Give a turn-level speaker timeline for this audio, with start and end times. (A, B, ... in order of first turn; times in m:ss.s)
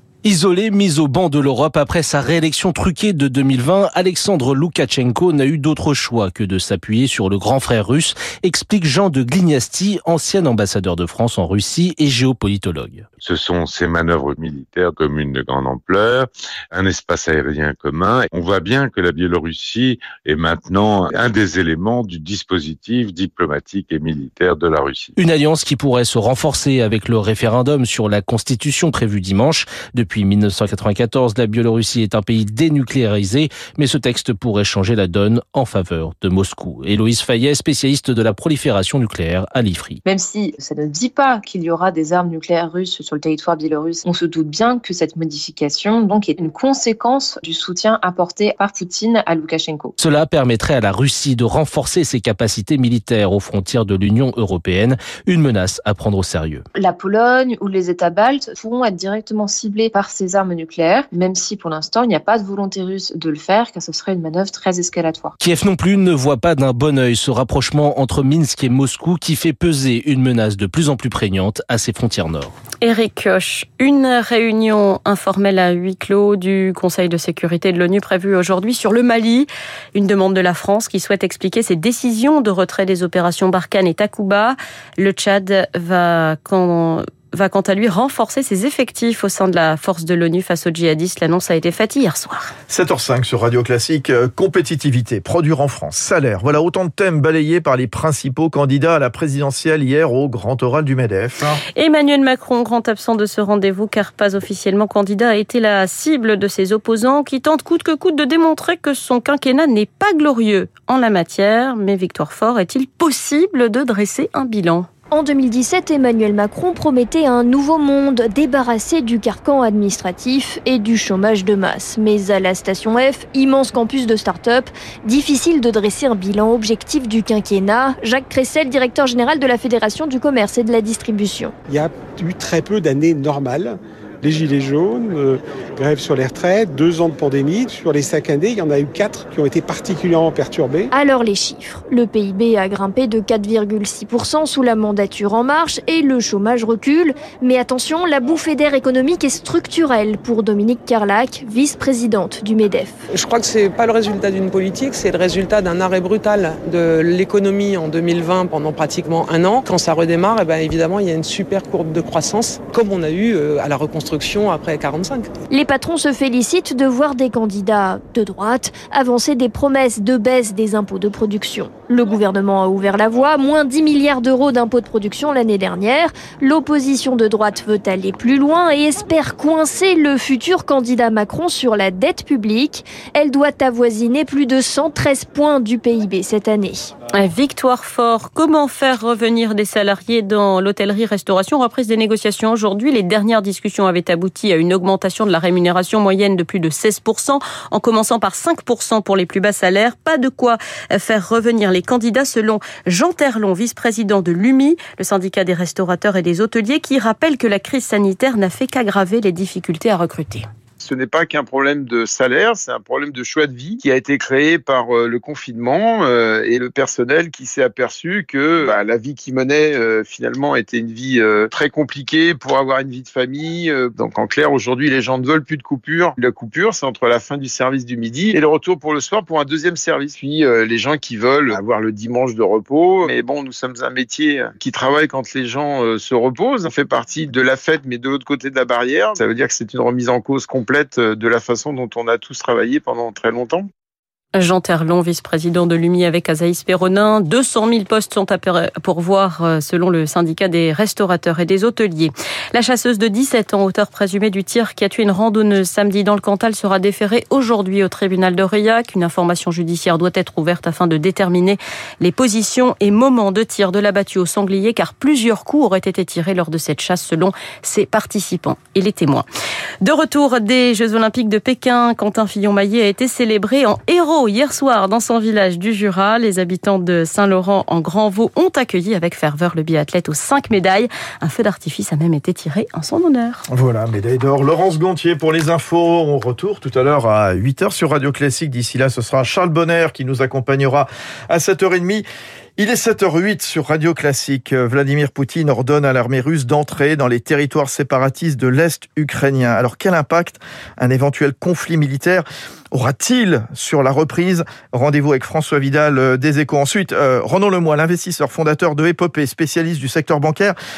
0:00.2-0:13.0 A
0:13.2-0:25.1 B
0:25.2-0:40.0 A
0:40.0-0:49.9 C
0:50.0-0:56.6 A
0:56.7-1:05.3 C
1:05.4-1:12.5 A
1:12.8-1:32.5 D
1:32.7-1:41.6 E
1:41.7-1:54.9 D
1:55.1-2:11.5 F
2:11.7-2:20.9 G
2:20.9-2:33.0 F
2:33.1-2:45.3 H
2:45.5-3:06.9 F
3:07.2-3:30.5 D
3:30.8-4:03.7 I
4:04.4-4:29.2 D
4:29.8-4:43.4 D
4:43.5-4:52.0 E
4:52.6-5:10.6 E